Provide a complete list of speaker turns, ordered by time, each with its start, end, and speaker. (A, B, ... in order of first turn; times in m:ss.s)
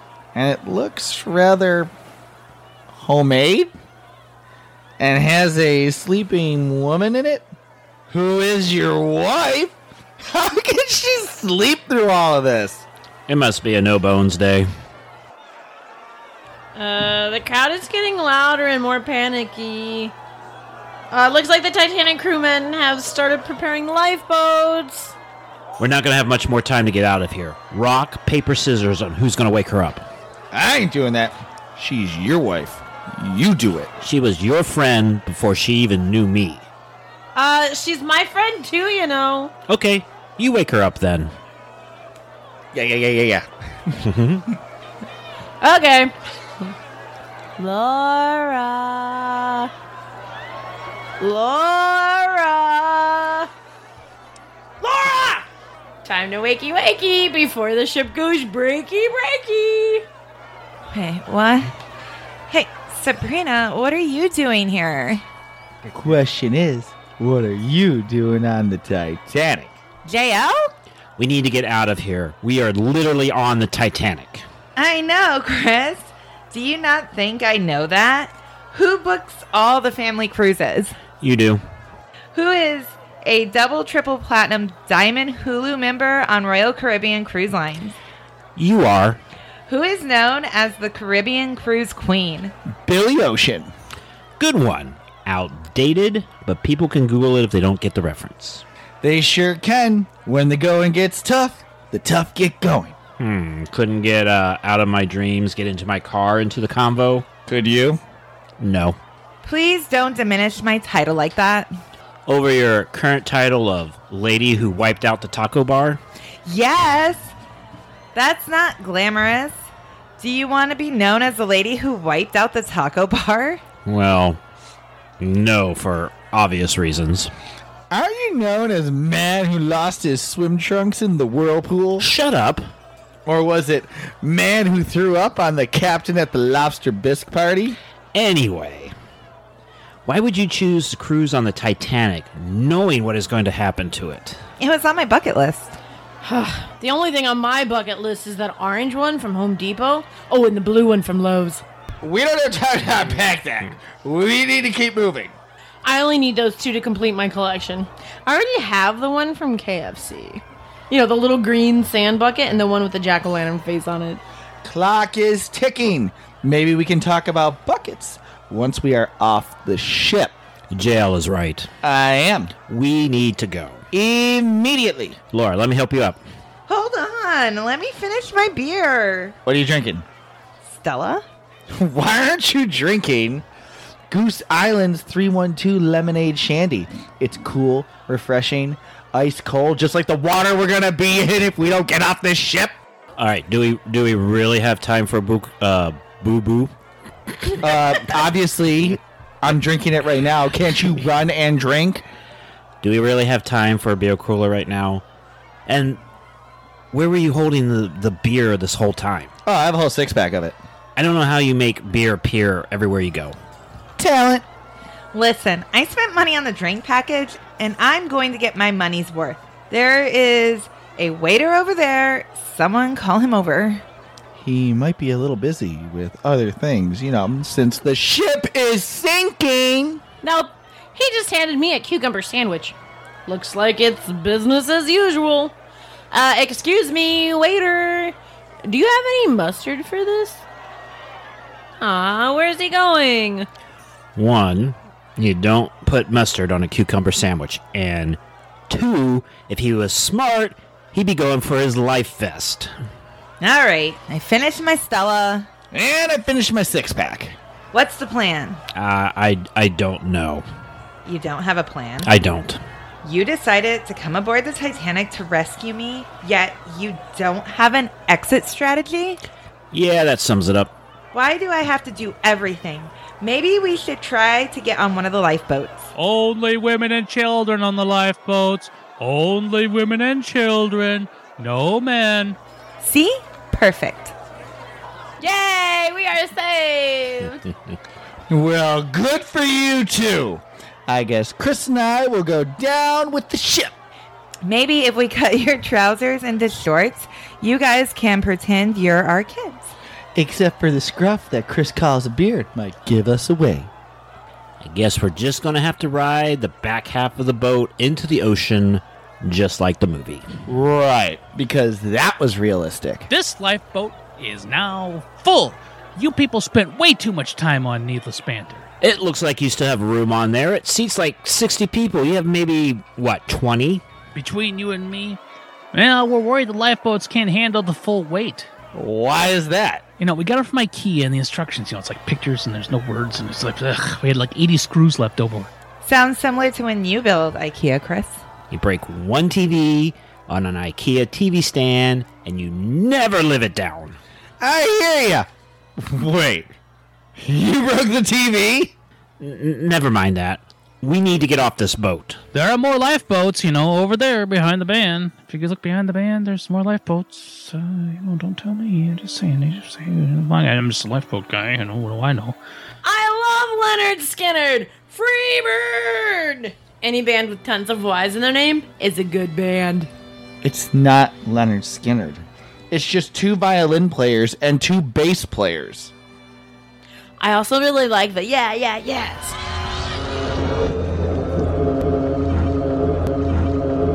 0:00.3-0:01.9 A
0:02.9-0:03.7 A
0:05.0-0:07.5 A
0:08.1-0:12.8 A
0:13.3-0:14.7 B
0:16.8-0:20.2 C
0:21.1-0:25.2 C
0:25.8-0:30.1 B
0:30.5-0:33.9 A
0:34.0-0:36.7 B
0:37.4-0:39.5 C
0:39.7-0:41.3 B
0:42.7-0:44.0 A
0:44.0-0:44.4 B
0:45.6-0:46.1 C
0:47.6-0:49.7 C
0:51.2-0:53.5 C
0:54.8-0:55.5 C
0:56.0-1:00.1 C
1:00.9-1:01.7 D
1:02.5-1:05.2 D
1:05.9-1:09.8 A
1:10.1-1:10.7 D
1:11.2-1:14.4 B
1:14.8-1:21.0 D
1:21.2-1:21.6 B
1:22.3-1:28.0 D
1:28.6-1:29.2 B
1:29.7-1:32.5 D
1:32.8-1:33.7 A
1:34.4-1:38.6 B
1:39.0-1:42.9 A
1:43.2-1:47.2 B
1:47.5-1:48.0 A
1:48.6-1:49.0 B
1:49.4-1:51.7 D
1:52.3-1:56.0 B
1:56.5-1:57.3 D
1:58.2-1:59.7 D
2:00.2-2:03.6 D
2:03.9-2:04.4 B
2:05.2-2:07.3 B
2:07.9-2:12.1 A
2:12.0-2:12.7 B
2:13.3-2:17.8 A
2:18.1-2:18.9 B
2:20.1-2:24.4 B
2:24.6-2:25.8 D
2:26.2-2:31.6 C
2:32.0-2:35.4 A
2:35.8-2:44.2 C
2:44.6-2:50.3 A
2:50.7-2:51.7 B
2:51.8-2:52.5 A
2:52.7-2:53.8 B
2:53.9-2:55.2 A
2:55.3-2:56.2 B
2:56.7-2:59.4 D
2:59.4-3:00.0 A
3:00.6-3:01.2 D
3:01.7-3:03.4 A
3:04.1-3:12.7 A
3:13.2-3:16.7 B
3:17.6-3:22.0 A
3:22.8-3:25.0 B
3:25.7-3:26.0 B
3:26.9-3:29.3 B
3:29.4-3:30.6 A
3:31.0-3:33.4 B
3:34.0-3:34.4 A
3:35.1-3:43.8 D
3:44.4-3:50.0 A
3:50.2-3:55.6 C
3:56.1-4:00.4 C
4:01.8-4:03.5 C
4:04.2-4:12.7 B
4:13.4-4:15.5 D
4:15.7-4:17.4 A
4:17.7-4:18.6 D
4:18.8-4:20.4 B
4:21.0-4:22.1 D
4:22.1-4:22.6 B
4:23.0-4:29.2 D
4:29.7-4:30.7 B
4:31.1-4:35.9 D
4:36.0-4:42.4 E
4:42.8-4:44.1 D
4:45.2-4:47.4 C
4:48.3-4:53.7 A
4:54.4-4:59.7 D
5:00.2-5:03.7 A
5:04.6-5:10.3 B
5:10.5-5:13.1 A
5:13.1-5:18.7 E
5:18.8-5:23.8 B
5:24.2-5:25.2 E
5:25.7-5:28.5 E
5:28.7-5:29.8 A
5:30.0-5:35.5 E
5:35.8-5:38.2 D
5:38.5-5:44.0 B
5:44.4-5:45.3 A
5:45.8-5:46.5 A
5:47.2-5:48.7 A
5:49.2-5:52.2 B
5:52.3-6:02.4 E
6:02.8-6:09.9 C
6:10.4-6:15.9 A
6:17.2-6:19.4 C